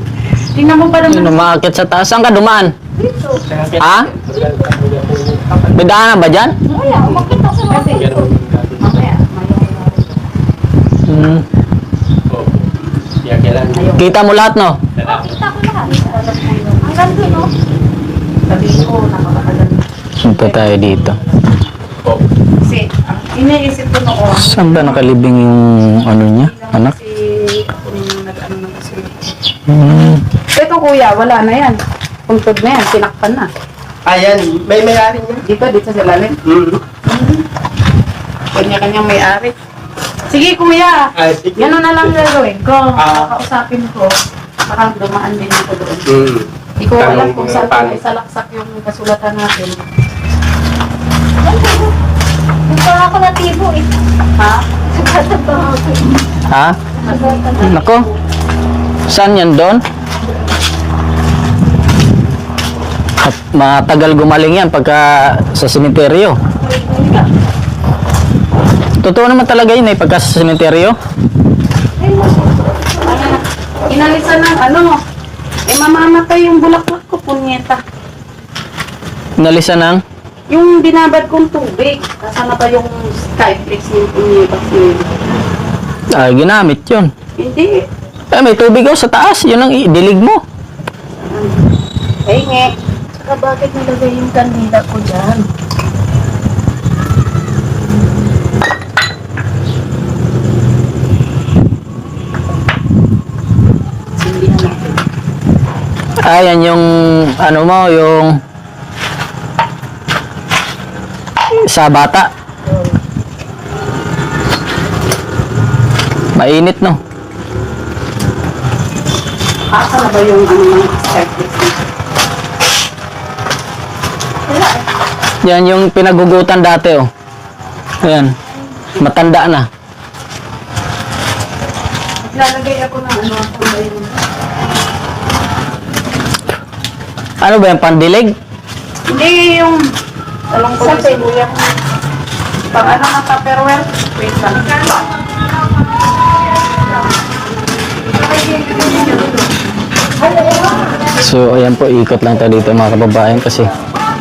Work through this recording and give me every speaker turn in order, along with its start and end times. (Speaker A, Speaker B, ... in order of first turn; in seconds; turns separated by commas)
Speaker A: 0.5-1.4, Speaker B: 1.1-2.8, Speaker C: 3.0-3.5, Speaker D: 3.5-5.9, Speaker B: 3.8-4.1, Speaker B: 5.8-6.6, Speaker C: 6.7-8.3, Speaker D: 7.1-7.4, Speaker A: 7.7-8.1, Speaker D: 7.9-9.0, Speaker A: 8.8-10.2, Speaker B: 11.1-11.4, Speaker D: 12.3-12.7, Speaker D: 13.2-13.9, Speaker A: 13.7-14.1, Speaker B: 14.0-14.8, Speaker D: 15.0-15.4, Speaker C: 15.0-17.5, Speaker A: 15.8-17.5, Speaker A: 18.5-21.7, Speaker B: 20.2-21.2, Speaker A: 22.6-25.1, Speaker B: 24.4-26.9, Speaker A: 26.4-29.3, Speaker B: 29.7-30.2, Speaker A: 30.5-33.5, Speaker D: 34.1-35.4, Speaker A: 35.4-36.4, Speaker D: 36.5-36.8, Speaker A: 37.1-37.4, Speaker A: 38.5-39.5, Speaker A: 40.3-41.0, Speaker D: 41.2-42.2, Speaker A: 41.6-44.1, Speaker D: 43.0-43.2, Speaker A: 44.7-46.1, Speaker D: 46.1-48.0, Speaker A: 46.8-49.8, Speaker C: 51.4-51.9, Speaker C: 52.7-53.9, Speaker A: 54.4-54.6, Speaker C: 54.9-56.2, Speaker B: 56.5-56.8, Speaker C: 57.0-57.4, Speaker A: 57.0-58.1, Speaker B: 57.6-58.1, Speaker B: 59.1-59.8, Speaker B: 63.2-66.4, Speaker A: 66.6-67.3, Speaker B: 69.0-71.0, Speaker C: 72.0-73.3, Speaker A: 73.0-75.0, Speaker A: 75.7-77.8, Speaker B: 79.4-80.0, Speaker A: 80.5-85.2, Speaker B: 86.1-87.1, Speaker A: 87.4-87.8, Speaker B: 88.3-90.4, Speaker A: 91.2-91.6, Speaker A: 92.2-95.5, Speaker A: 104.2-105.0, Speaker B: 106.2-108.4, Speaker B: 111.6-112.3, Speaker B: 116.3-117.0, Speaker A: 119.7-121.8, Speaker A: 124.5-124.8, Speaker B: 125.4-127.1, Speaker B: 128.0-128.3, Speaker B: 129.0-129.7, Speaker A: 132.2-134.2, Speaker B: 137.4-138.3, Speaker A: 139.1-139.8, Speaker A: 140.5-141.7, Speaker C: 140.8-141.2, Speaker A: 142.7-144.9, Speaker A: 148.5-149.4, Speaker C: 150.2-150.9, Speaker B: 151.2-153.7